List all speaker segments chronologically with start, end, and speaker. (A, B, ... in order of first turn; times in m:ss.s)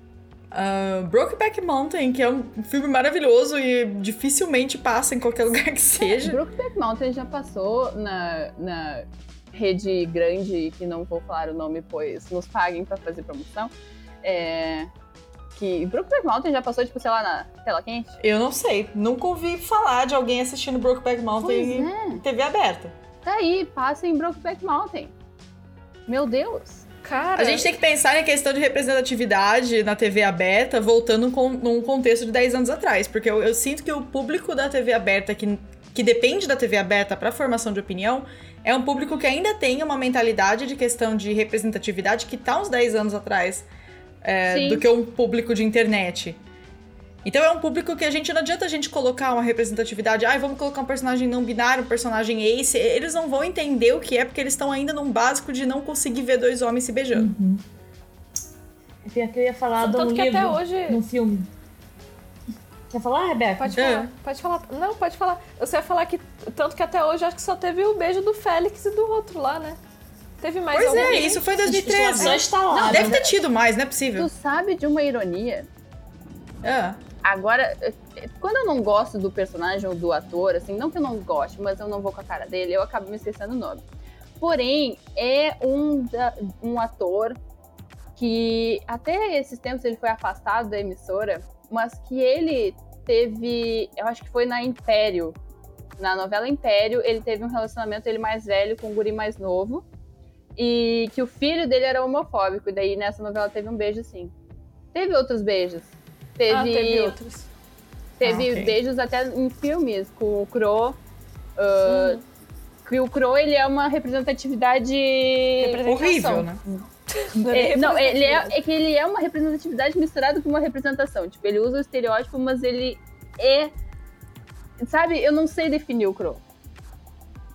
0:00.5-0:06.4 A
0:06.0-0:14.9 B
0:15.6-0:18.2 B
0:18.2-0:22.9 A
0:21.4-0:22.2 B
0:23.2-0:25.1 B
0:26.1-0:26.8 B
0:27.0-0:27.7 C
0:27.4-0:43.7 A
0:44.2-0:46.4 A
0:44.5-0:44.9 B
0:47.2-0:57.3 A
0:57.1-0:57.6 D
0:59.0-1:01.5 D
0:59.8-1:01.0 C
1:02.9-1:03.8 D
1:03.6-1:09.8 C
1:03.8-1:04.1 A
1:10.4-1:11.4 C
1:10.7-1:14.3 A
1:10.8-1:13.2 D
1:12.2-1:12.9 C
1:12.8-1:13.4 B
1:14.2-1:15.7 B
1:16.6-1:17.0 A
1:17.2-1:23.8 B
1:24.4-1:27.4 B
1:28.2-1:35.4 B
1:36.0-1:39.8 B
1:40.6-1:44.3 B
1:44.9-1:47.2 B
1:46.5-1:47.5 C
1:48.2-1:51.0 B
1:48.2-1:48.8 A
1:51.6-1:52.2 B
1:51.8-1:52.2 C
1:52.8-2:03.7 B
1:55.6-1:56.4 C
1:55.8-1:56.6 A
1:57.1-1:58.5 C
2:04.8-2:06.4 B